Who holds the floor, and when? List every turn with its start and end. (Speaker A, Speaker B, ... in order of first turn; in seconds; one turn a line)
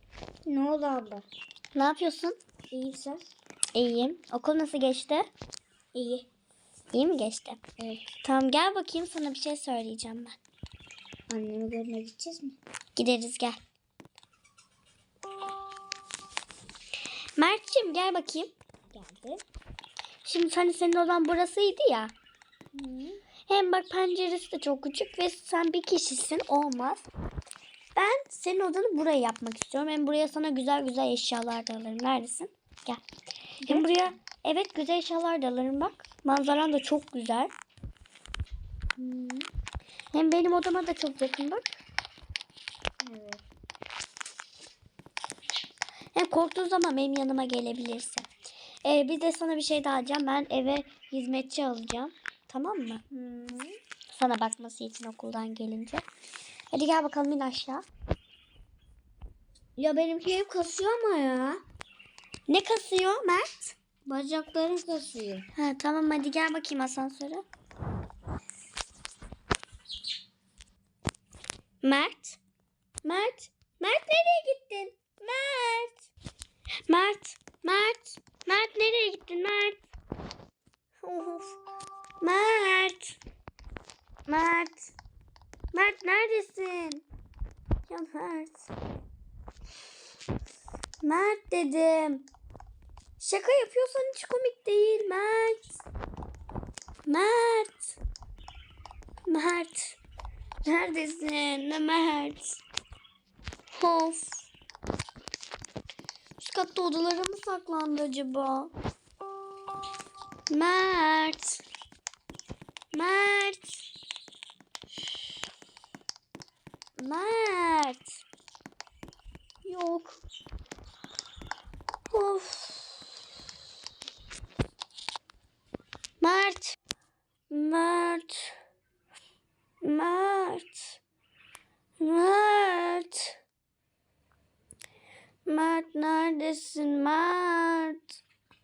Speaker A: 0.5-1.2
Speaker B: 1.7-2.4
Speaker A: 2.7-3.3
Speaker B: 3.7-5.3
Speaker A: 5.9-6.2
Speaker B: 6.9-7.6
Speaker A: 7.8-8.1
Speaker B: 8.2-10.4
Speaker A: 11.3-12.6
Speaker B: 12.9-13.6
Speaker B: 17.4-18.5
Speaker A: 18.9-19.4
Speaker B: 20.2-22.1
Speaker A: 22.7-23.2
Speaker B: 23.5-27.0
Speaker B: 27.9-33.0
Speaker B: 33.6-37.5
Speaker A: 39.0-39.5
Speaker B: 40.1-41.8
Speaker A: 43.0-43.4
Speaker B: 46.1-48.3
Speaker B: 48.8-53.0
Speaker A: 53.1-53.7
Speaker B: 54.1-56.0
Speaker B: 56.7-57.8
Speaker A: 59.8-61.6
Speaker B: 62.5-63.8
Speaker A: 64.0-65.5
Speaker B: 65.5-67.4
Speaker B: 71.8-72.4
Speaker B: 73.0-76.0
Speaker B: 76.9-79.8
Speaker B: 81.0-81.6
Speaker B: 82.2-83.2
Speaker B: 84.3-84.9
Speaker B: 85.7-87.0
Speaker B: 87.9-88.7
Speaker B: 91.0-92.3
Speaker B: 93.2-95.8
Speaker B: 97.0-98.0
Speaker B: 99.3-100.0
Speaker B: 100.6-102.6
Speaker B: 103.7-104.5
Speaker B: 106.4-108.7
Speaker B: 110.5-111.6
Speaker B: 112.9-113.8
Speaker B: 117.0-118.2
Speaker B: 119.6-120.2
Speaker B: 122.1-123.1
Speaker B: 126.2-126.8
Speaker B: 127.5-128.5
Speaker B: 129.8-131.0
Speaker B: 132.0-133.3
Speaker B: 135.4-138.2